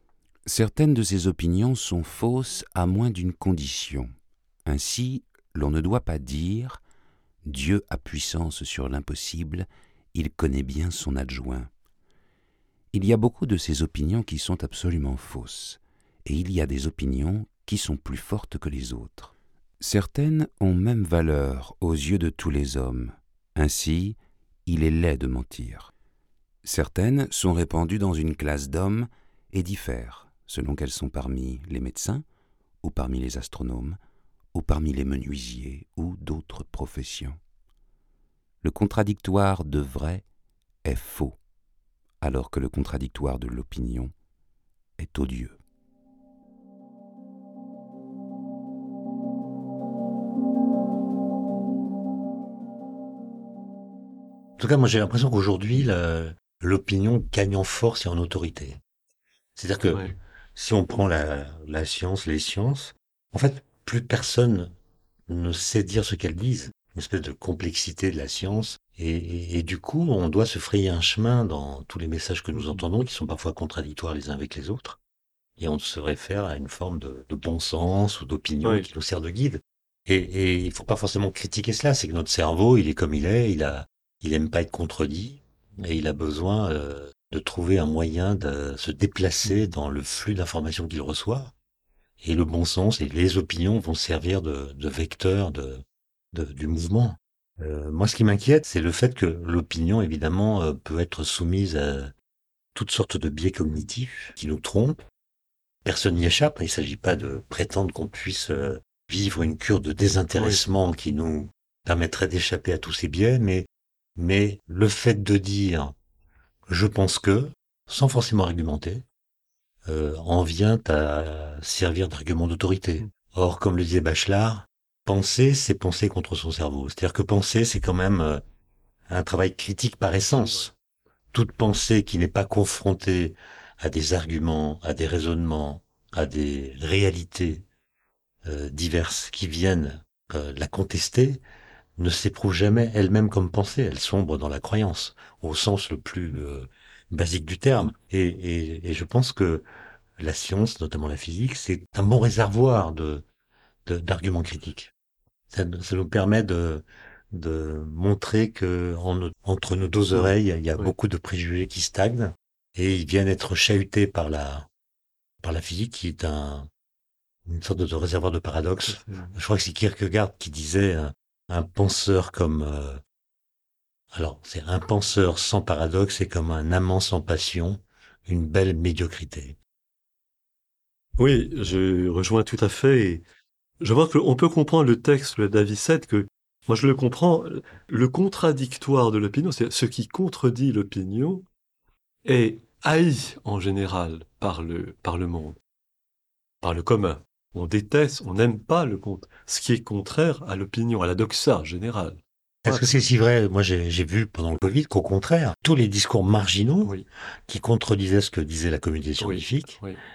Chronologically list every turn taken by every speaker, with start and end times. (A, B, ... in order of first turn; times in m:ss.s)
0:00.5-0:04.1 A
0:04.6-0:06.8 A
0:07.5-0:11.7 A
0:12.9-0:25.9 A
0:26.6-0:32.2 A
0:32.8-0:34.0 A
0:34.5-0:37.4 A
0:38.6-0:40.2 A
0:40.8-0:41.4 A
0:42.2-0:44.1 A
0:45.0-0:45.6 A
0:54.6-0:58.8 B
0:59.6-1:04.7 B
1:05.3-1:15.0 B
1:15.6-1:31.5 B
1:32.2-1:42.1 B
1:42.8-1:45.0 B
1:45.8-1:56.0 B
1:50.4-1:50.6 C
1:56.7-1:59.0 B
1:59.9-2:08.4 B
2:09.1-2:10.7 B
2:10.4-2:10.7 C
2:11.3-2:17.6 B
2:18.4-2:21.4 B
2:22.0-2:29.6 B
2:30.2-2:33.2 B
2:33.9-2:34.9 B
2:35.5-2:44.7 B
2:40.1-2:40.9 C
2:45.4-2:46.7 B
2:47.5-2:53.0 B
2:48.9-2:49.4 C
2:54.1-2:59.6 B
3:01.2-3:03.2 C
3:03.8-3:11.4 C
3:12.2-3:15.6 C
3:16.6-3:23.0 C
3:22.6-3:27.0 B
3:27.5-3:29.8 B
3:29.2-3:30.0 C